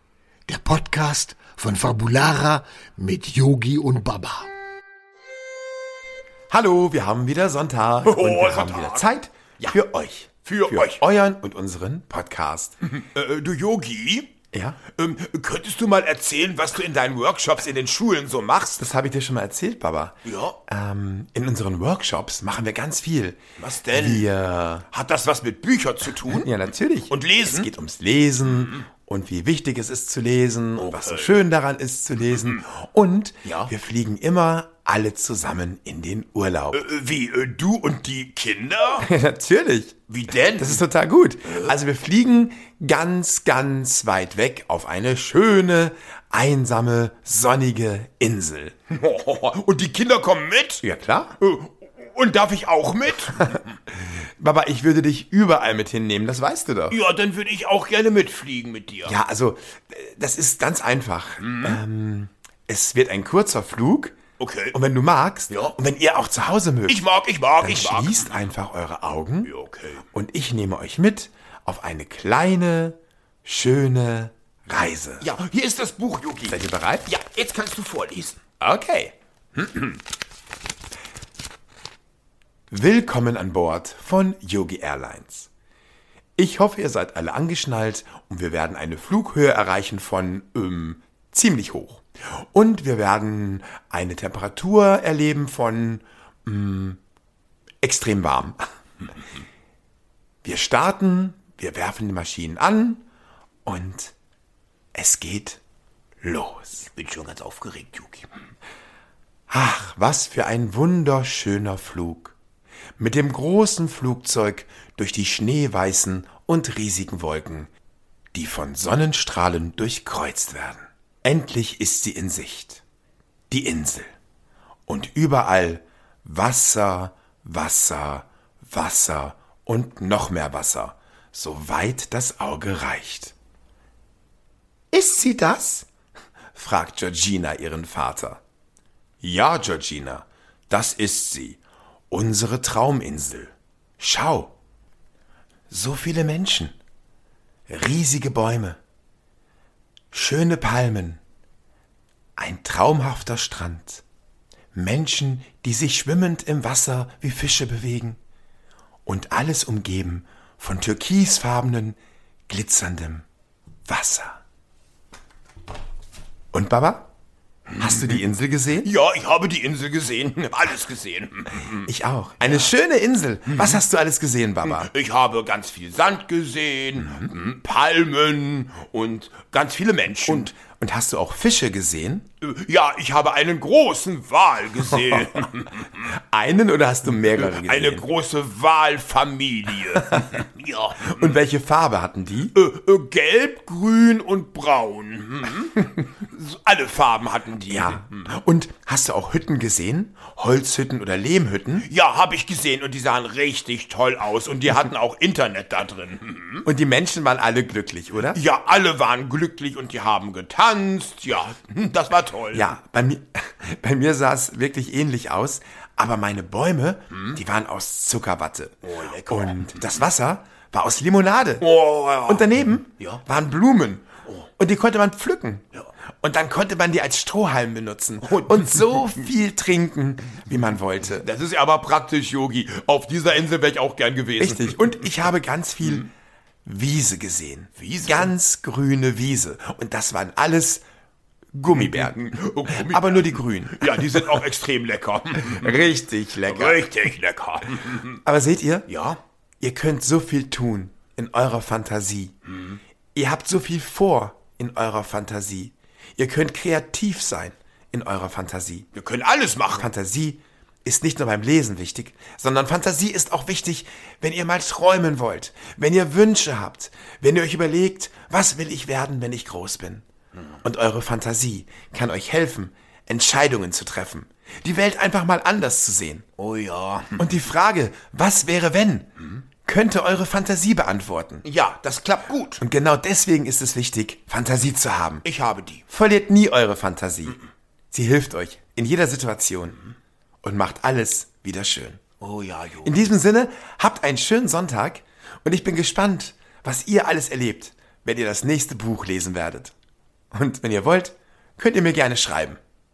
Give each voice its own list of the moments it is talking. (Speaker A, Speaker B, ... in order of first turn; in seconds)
Speaker A: 0.5-4.5
Speaker B: 6.5-12.7, 14.5-14.8, 18.8-24.9, 26.3-36.8, 39.0-40.0, 40.5-48.7, 50.8-51.4, 54.4-57.0, 59.0-64.2, 64.7-67.0, 67.6-69.5, 70.1-75.3, 76.5-77.1, 78.6-79.1, 82.7-85.5, 86.4-97.0, 97.8-98.6, 100.4-103.0, 103.6-104.1, 104.9-105.6, 106.2-106.8, 109.5-112.3, 113.0-117.7, 118.3-122.8, 123.5-124.1, 124.9-133.3, 134.9-135.9, 136.5-138.4, 139.2-141.6, 142.1-144.5, 145.7-146.7, 147.7-148.8, 150.1-151.2, 152.4-154.0, 154.7-158.2, 159.1-162.0, 162.5-163.2, 163.9-164.4, 166.5-167.1, 167.8-168.9, 171.8-174.9, 180.3-182.3, 185.1-185.4, 186.1-188.1, 191.0-192.5, 197.7-201.9, 206.6-208.4, 212.5-221.7, 222.3-225.6, 226.2-231.3, 234.4-236.1, 236.6-240.8, 241.5-244.4, 245.4-246.9, 248.2-248.9, 249.6-252.3, 253.1-258.9, 259.8-270.0, 270.6-276.2, 277.2-279.1, 279.6-281.4, 282.6-285.2, 285.9-287.4, 287.9-289.8, 290.4-292.0, 292.8-299.7, 300.3-302.6
Speaker C: 8.0-9.1, 10.4-11.0, 13.0-14.3, 14.9-18.9, 20.2-20.6, 23.6-24.2, 24.9-26.5, 27.1-27.7, 30.8-31.4, 33.4-33.7, 36.7-39.1, 40.1-40.8, 48.9-50.8, 51.4-53.6, 56.9-59.1, 61.4-61.8, 64.4-64.8, 66.9-68.4, 69.4-70.0, 75.2-78.4, 106.8-108.3, 167.7-168.2, 168.8-171.9, 173.5-173.8, 174.6-180.5, 182.4-186.1, 187.2-191.3, 192.5-198.3, 201.8-206.7, 208.3-212.7, 218.8-219.9, 221.6-223.2, 228.3-229.1, 231.2-235.1, 237.8-238.3, 241.7-245.9, 246.4-248.2, 248.9-249.2, 258.9-259.9, 276.4-277.2, 281.4-282.6, 285.2-285.8, 292.2-293.1